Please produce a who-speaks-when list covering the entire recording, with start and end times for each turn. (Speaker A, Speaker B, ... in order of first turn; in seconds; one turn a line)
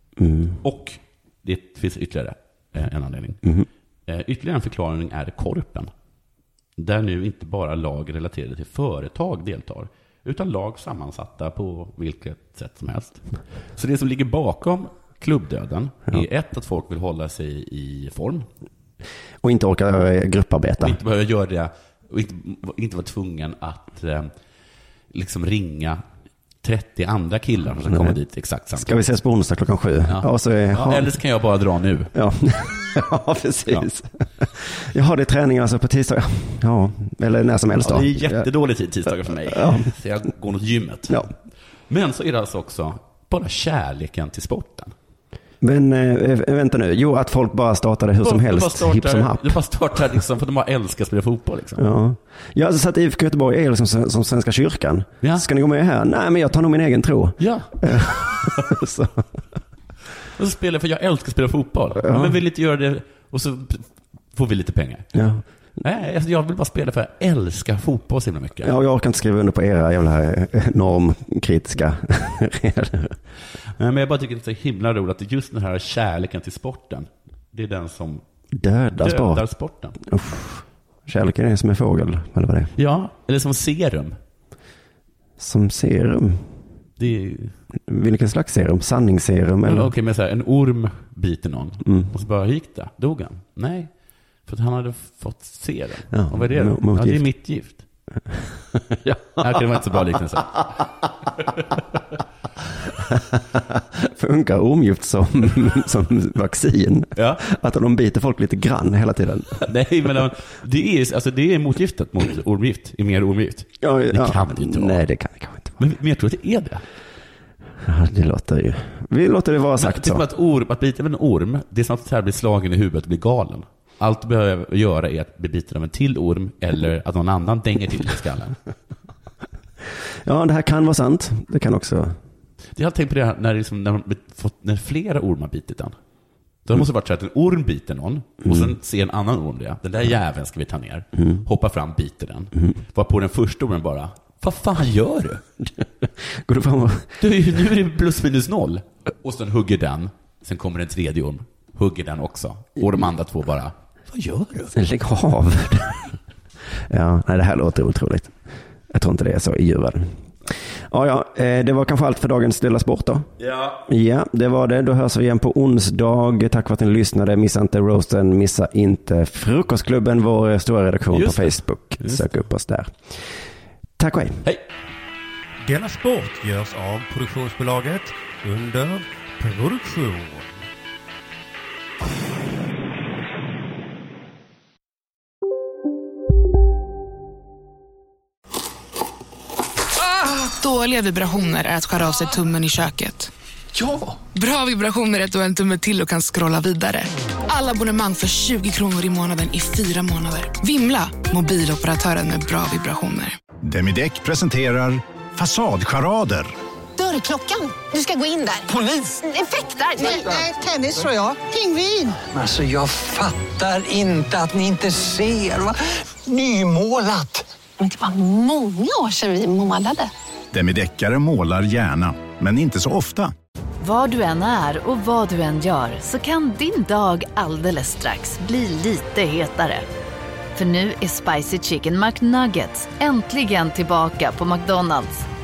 Speaker A: 0.2-0.6
Speaker B: 0.6-3.4
Speaker B: 4.1-5.9
Speaker B: 6.8-13.2
Speaker B: 13.8-18.5
Speaker A: 19.4-21.0
Speaker B: 20.8-24.3
Speaker B: 25.1-26.0
Speaker B: 26.6-29.0
Speaker A: 27.9-28.2
Speaker A: 28.8-31.2
Speaker B: 30.1-32.1
Speaker A: 32.1-38.5
Speaker B: 37.8-41.3
Speaker A: 39.2-39.9
Speaker B: 41.9-44.9
Speaker A: 45.6-49.6
Speaker B: 48.2-51.9
Speaker A: 51.8-59.2
Speaker B: 57.4-58.7
Speaker B: 60.4-65.1
Speaker A: 62.0-62.4
Speaker A: 65.1-65.4
Speaker B: 65.8-68.7
Speaker A: 68.6-73.2
Speaker B: 73.8-78.2
Speaker A: 78.5-79.4
Speaker B: 79.0-80.0
Speaker A: 80.0-82.7
Speaker B: 82.8-84.2
Speaker A: 85.4-86.5
Speaker B: 87.0-87.5
Speaker A: 87.9-89.9
Speaker B: 89.6-93.9
Speaker A: 91.8-92.1
Speaker B: 94.5-97.8
Speaker A: 96.1-97.2
Speaker A: 98.7-99.7
Speaker B: 99.4-100.8
Speaker A: 103.1-109.6
Speaker B: 107.1-107.4
Speaker B: 109.6-115.0
Speaker A: 113.8-115.8
Speaker B: 115.8-116.8
Speaker A: 117.8-120.2
Speaker B: 119.8-128.6
Speaker A: 130.2-132.2
Speaker B: 132.8-136.0
Speaker B: 136.6-145.4
Speaker A: 138.4-138.7
Speaker A: 146.0-147.2
Speaker B: 147.2-154.7
Speaker A: 154.7-156.1
Speaker A: 156.9-158.3
Speaker A: 158.9-160.1
Speaker A: 160.9-163.3
Speaker B: 163.4-163.8
Speaker A: 163.9-173.2
Speaker B: 171.1-172.4
Speaker A: 174.0-174.4
Speaker C: 175.7-177.8
Speaker D: 175.7-180.4
Speaker E: 190.1-193.3
Speaker E: 194.2-203.4
Speaker C: 203.6-206.5
Speaker F: 207.0-212.2
Speaker G: 212.3-215.6
Speaker F: 216.3-217.2
Speaker F: 217.8-220.1
Speaker C: 220.5-223.3
Speaker H: 223.8-229.8
Speaker H: 230.6-235.3